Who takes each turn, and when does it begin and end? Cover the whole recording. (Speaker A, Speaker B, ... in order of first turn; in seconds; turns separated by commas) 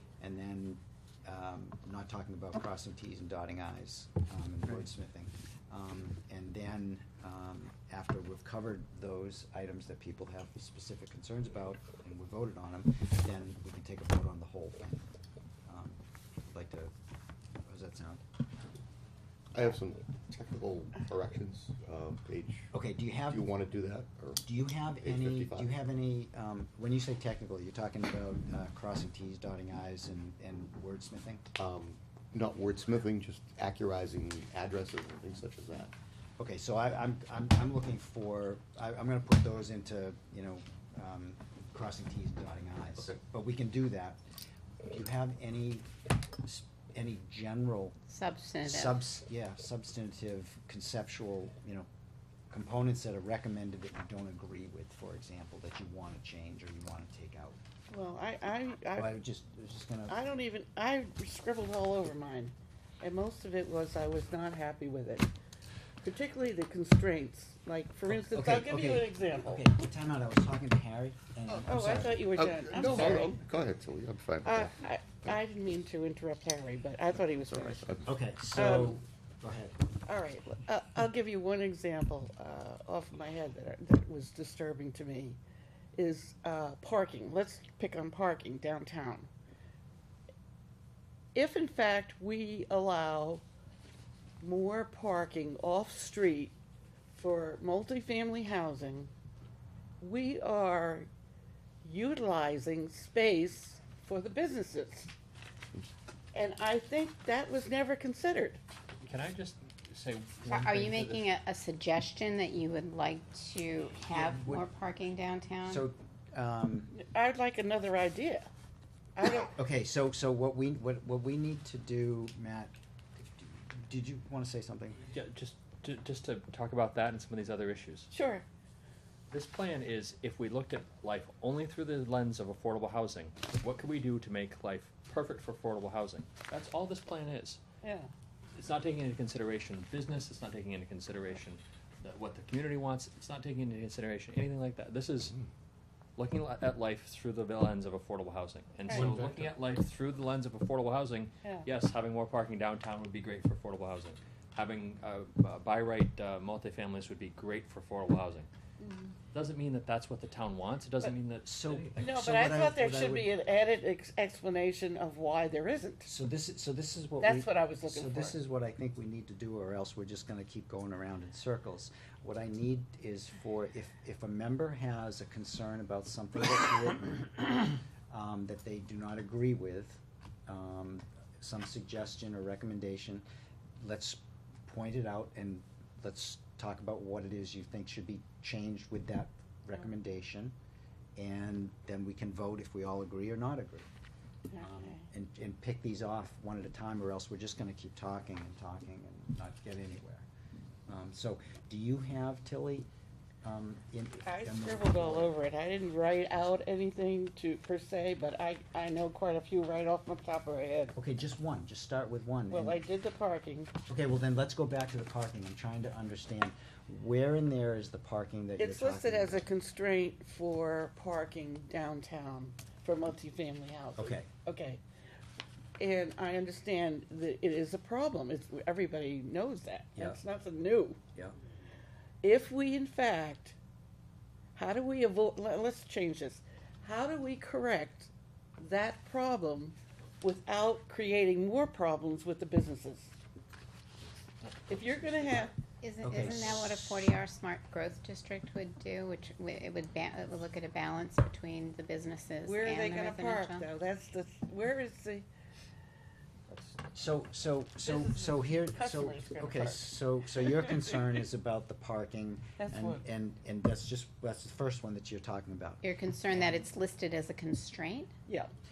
Speaker A: 0.2-15.1, Speaker A: 15.7-16.9, Speaker A: 17.6-18.2, Speaker B: 19.5-22.7, Speaker A: 22.7-23.5, Speaker B: 23.2-24.5, Speaker A: 24.4-31.4, Speaker B: 25.0-25.8, Speaker B: 31.6-35.9, Speaker A: 36.4-44.2, Speaker A: 44.9-45.9, Speaker A: 46.4-48.0, Speaker C: 48.1-49.0, Speaker A: 48.6-51.9, Speaker A: 52.5-57.6, Speaker D: 57.9-59.2, Speaker A: 59.0-60.2, Speaker D: 60.1-65.3, Speaker D: 66.0-69.7, Speaker A: 68.1-72.3, Speaker D: 71.7-73.4, Speaker B: 72.2-74.7, Speaker D: 74.5-77.8, Speaker B: 77.5-78.1, Speaker A: 78.0-79.8, Speaker D: 78.5-79.0, Speaker D: 80.1-85.4, Speaker D: 86.0-89.3, Speaker D: 91.3-93.4, Speaker D: 94.4-96.5, Speaker D: 97.1-99.1, Speaker D: 100.0-101.1, Speaker D: 101.8-105.1, Speaker D: 106.3-108.6, Speaker E: 109.0-111.3, Speaker C: 110.5-115.9, Speaker A: 114.1-114.6, Speaker A: 115.7-116.9, Speaker D: 116.9-118.5, Speaker D: 119.2-119.5, Speaker A: 119.5-125.0, Speaker E: 125.1-128.1, Speaker D: 128.1-128.4, Speaker E: 129.3-137.6, Speaker D: 137.8-138.1, Speaker E: 138.5-145.3, Speaker E: 146.2-158.5, Speaker B: 149.1-149.5, Speaker D: 158.8-159.1, Speaker E: 159.3-162.2, Speaker A: 161.4-163.3, Speaker D: 162.0-166.1, Speaker A: 166.1-183.2, Speaker D: 167.2-168.4, Speaker A: 183.8-190.6, Speaker A: 191.2-193.9, Speaker D: 194.5-195.1, Speaker A: 194.6-200.3, Speaker A: 200.9-202.9, Speaker A: 203.4-205.3, Speaker D: 204.2-210.9, Speaker A: 210.9-212.8, Speaker D: 212.5-213.7, Speaker A: 213.9-219.5, Speaker D: 218.6-224.8, Speaker A: 224.0-224.3, Speaker D: 225.8-231.0, Speaker A: 230.0-230.2, Speaker D: 232.2-233.6, Speaker D: 234.6-243.1, Speaker E: 244.4-245.4, Speaker D: 244.7-245.6, Speaker C: 245.8-253.7, Speaker A: 246.0-247.0, Speaker D: 252.4-255.2, Speaker D: 256.5-256.8, Speaker A: 256.9-266.6, Speaker D: 257.8-259.9, Speaker D: 262.6-263.0, Speaker C: 265.8-268.1